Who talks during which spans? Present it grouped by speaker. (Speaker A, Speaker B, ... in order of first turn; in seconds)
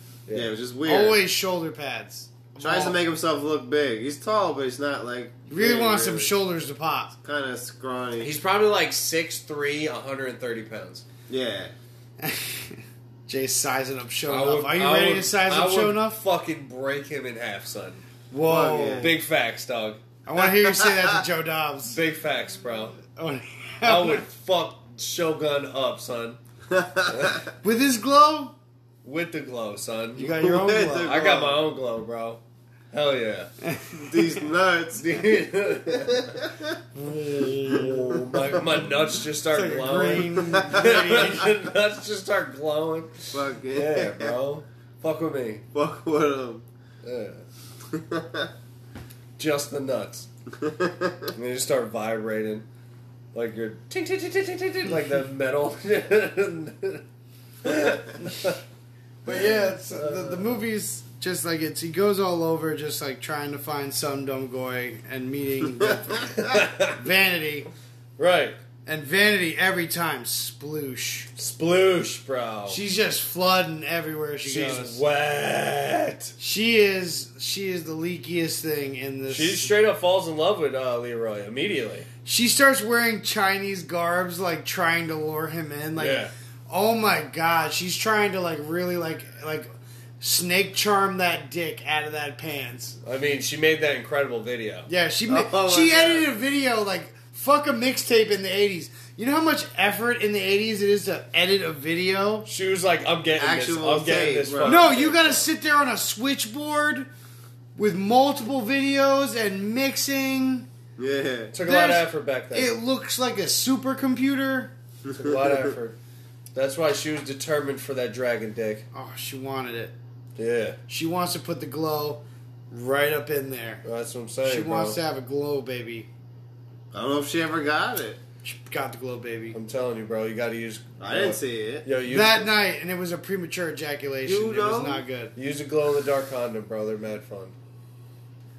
Speaker A: 0.3-1.2, 2.6-6.3, 7.2-8.3, 11.3-11.7, 18.4-19.1, 20.4-21.2, 26.7-27.5, 30.4-31.6, 33.9-36.8, 40.5-41.0, 43.3-44.4, 45.7-46.6, 47.9-48.5, 50.6-51.3, 95.3-96.3, 103.4-104.8, 111.0-111.5, 115.0-115.7, 126.9-128.2, 131.0-131.9, 134.2-135.0
Speaker B: 0.8-3.0, 5.5-7.1, 12.2-16.2, 18.3-19.1, 20.2-22.0, 23.1-24.3, 27.6-28.5, 30.1-31.1, 33.6-34.3, 36.9-38.1, 39.5-41.5, 59.2-67.7, 68.8-71.3, 72.7-75.0, 76.4-79.7, 82.2-89.7, 90.2-93.0, 94.9-102.5, 104.6-107.1, 107.8-110.7, 111.6-114.7, 118.9-119.9, 120.9-123.8, 124.4-126.1, 128.4-129.6, 132.1-135.3
Speaker C: 8.2-11.0, 14.3-18.0, 19.0-20.0, 21.9-23.0, 23.8-26.4, 27.1-27.4, 29.0-30.3, 31.0-32.4, 32.9-33.5, 35.0-36.3, 37.1-45.6, 47.0-47.4, 49.4-50.3, 51.3-52.6, 53.3-57.0, 57.6-58.6, 59.3-60.6, 66.4-67.0, 68.2-68.6, 71.4-72.8, 74.4-76.3, 79.3-82.1, 86.0-86.3, 93.0-94.9, 102.5-105.5, 111.5-112.7, 115.1-116.0, 116.5-118.8, 120.3-120.8, 123.8-125.0, 129.5-132.5, 135.3-137.6